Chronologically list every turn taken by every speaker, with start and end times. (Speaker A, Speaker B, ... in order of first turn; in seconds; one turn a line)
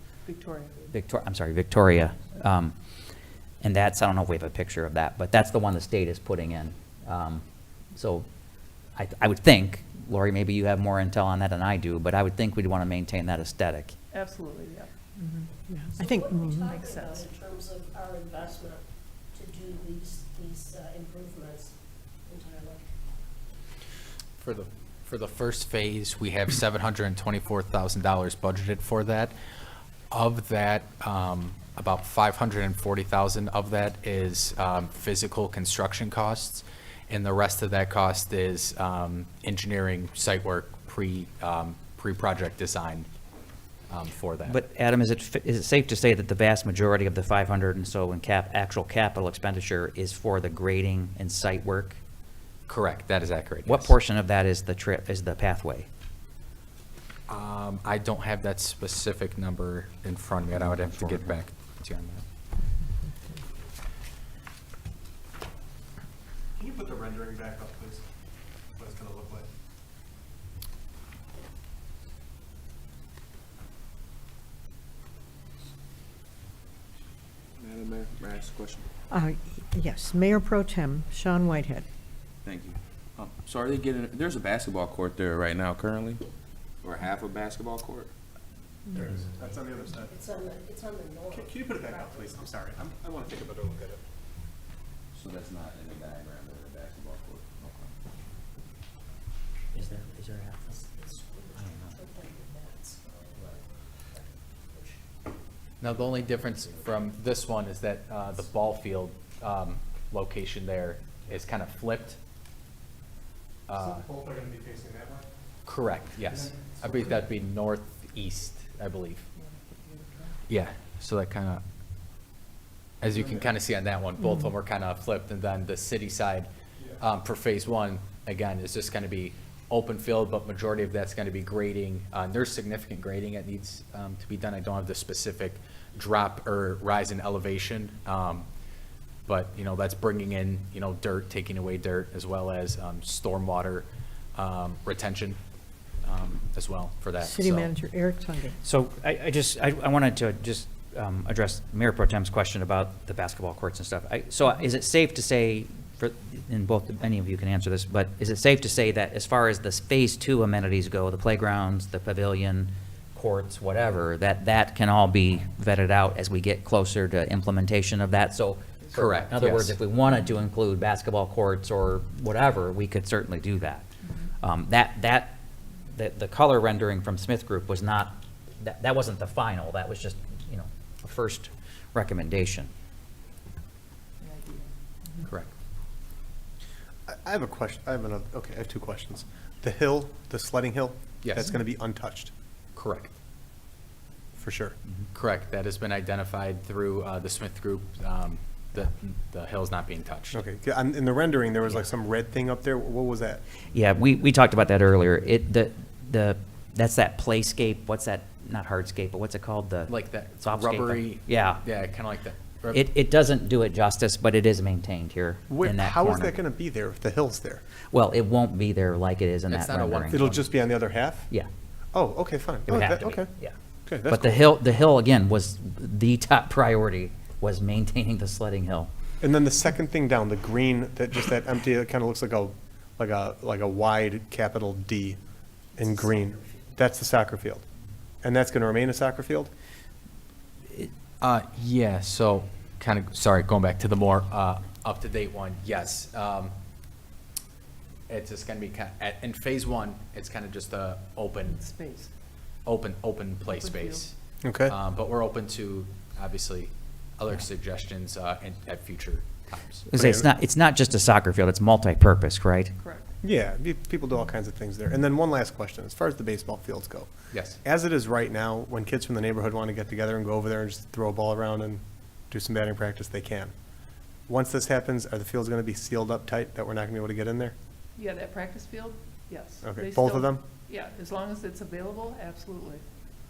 Speaker A: 0.2-0.8
Speaker B: 0.9-2.7
Speaker B: 3.6-8.3
Speaker B: 8.9-13.9
Speaker A: 14.1-14.9
Speaker C: 16.0-23.0
Speaker A: 16.6-17.3
Speaker D: 24.4-29.3
Speaker D: 30.1-43.1
Speaker D: 43.9-44.6
Speaker B: 44.5-52.0
Speaker D: 52.7-54.0
Speaker B: 53.6-55.9
Speaker D: 57.3-62.2
Speaker B: 60.6-61.3
Speaker E: 66.5-68.0
Speaker E: 68.8-69.5
Speaker F: 77.6-78.9
Speaker G: 79.2-81.8
Speaker F: 82.4-86.2
Speaker F: 86.8-88.1
Speaker E: 88.9-90.2
Speaker C: 90.1-92.2
Speaker E: 91.3-94.0
Speaker F: 95.1-97.9
Speaker C: 99.7-105.0
Speaker B: 99.7-100.6
Speaker B: 101.6-101.9
Speaker D: 105.8-112.2
Speaker D: 113.7-114.1
Speaker E: 113.7-115.3
Speaker D: 115.6-119.3
Speaker E: 116.2-117.2
Speaker A: 119.4-120.4
Speaker D: 120.5-121.6
Speaker D: 123.0-138.5
Speaker E: 123.1-123.4
Speaker D: 139.2-145.4
Speaker D: 146.0-147.7
Speaker B: 148.6-173.8
Speaker D: 168.9-169.8
Speaker B: 174.4-182.7
Speaker A: 184.2-185.3
Speaker E: 187.1-192.3
Speaker D: 191.2-191.5
Speaker D: 192.7-193.2
Speaker E: 194.4-194.8
Speaker D: 195.1-200.4
Speaker E: 200.3-203.4
Speaker B: 203.7-211.6
Speaker D: 209.9-212.8
Speaker B: 212.7-216.3
Speaker E: 215.5-217.6
Speaker B: 217.9-220.3
Speaker D: 219.5-220.5
Speaker E: 220.1-221.3
Speaker E: 221.9-223.3
Speaker B: 222.7-223.5
Speaker E: 223.8-224.4
Speaker B: 224.1-228.9
Speaker E: 229.2-235.2
Speaker E: 235.8-237.6
Speaker C: 235.8-236.6
Speaker E: 238.2-239.5
Speaker D: 241.2-246.5
Speaker D: 248.1-251.6
Speaker A: 251.4-252.1
Speaker D: 252.7-259.9
Speaker A: 253.4-254.1
Speaker E: 254.4-254.8
Speaker B: 259.9-262.7
Speaker E: 259.9-260.3
Speaker A: 262.8-263.1
Speaker E: 263.2-273.5
Speaker D: 267.3-267.6
Speaker E: 274.3-277.5
Speaker A: 277.9-282.8
Speaker E: 279.6-280.4